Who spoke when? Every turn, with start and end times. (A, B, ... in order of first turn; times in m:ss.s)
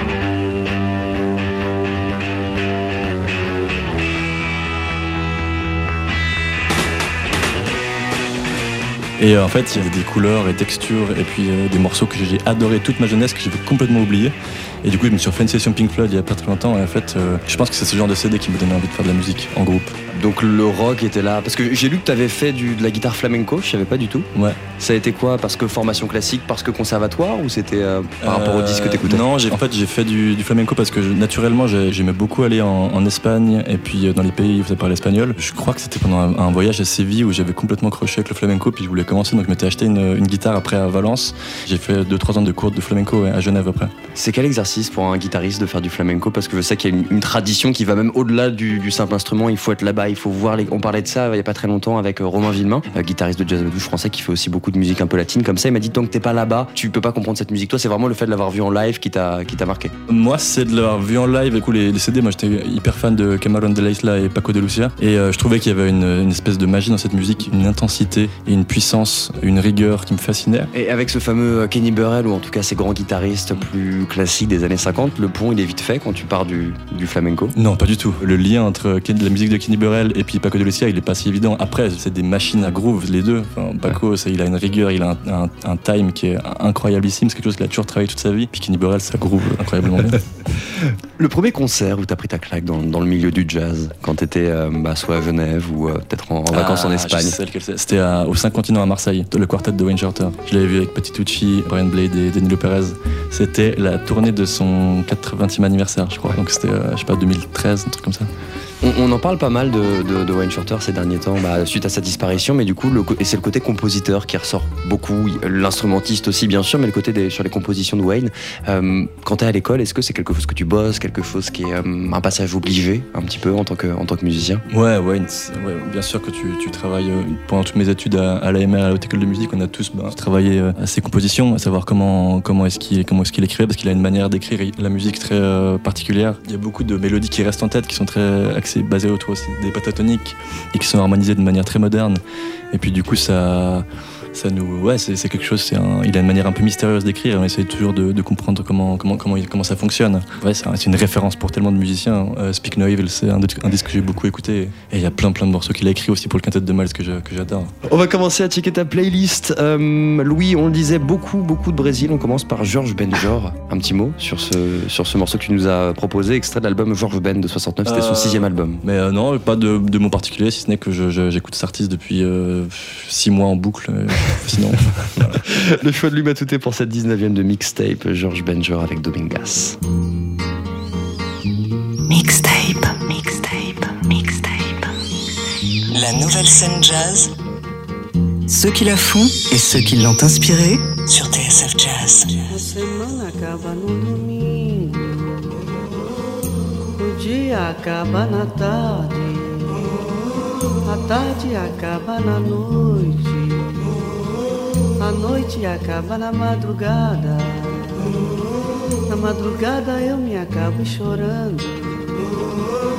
0:09.2-0:20.0 A
0:20.1-0:24.3 B
0:24.3-0:24.6 A
0:24.8-0:29.5 B
0:28.2-0:43.9 A
0:44.2-0:59.9 B
1:00.1-1:10.7 A
1:10.7-1:17.5 B
1:17.6-1:30.2 A
1:31.2-1:37.4 B
1:36.5-1:48.3 A
1:48.8-2:04.6 B
2:04.7-2:22.2 A
2:22.7-2:37.7 A
2:37.8-2:48.8 B
2:47.9-2:55.4 A
2:55.4-2:59.8 B
3:02.1-3:04.9 C
3:05.9-3:07.3 C
3:08.5-3:12.4 C
3:12.5-3:15.4 D
3:16.9-3:19.9 D
3:20.8-3:23.9 D
3:25.0-3:28.2 D
3:29.1-3:32.2 D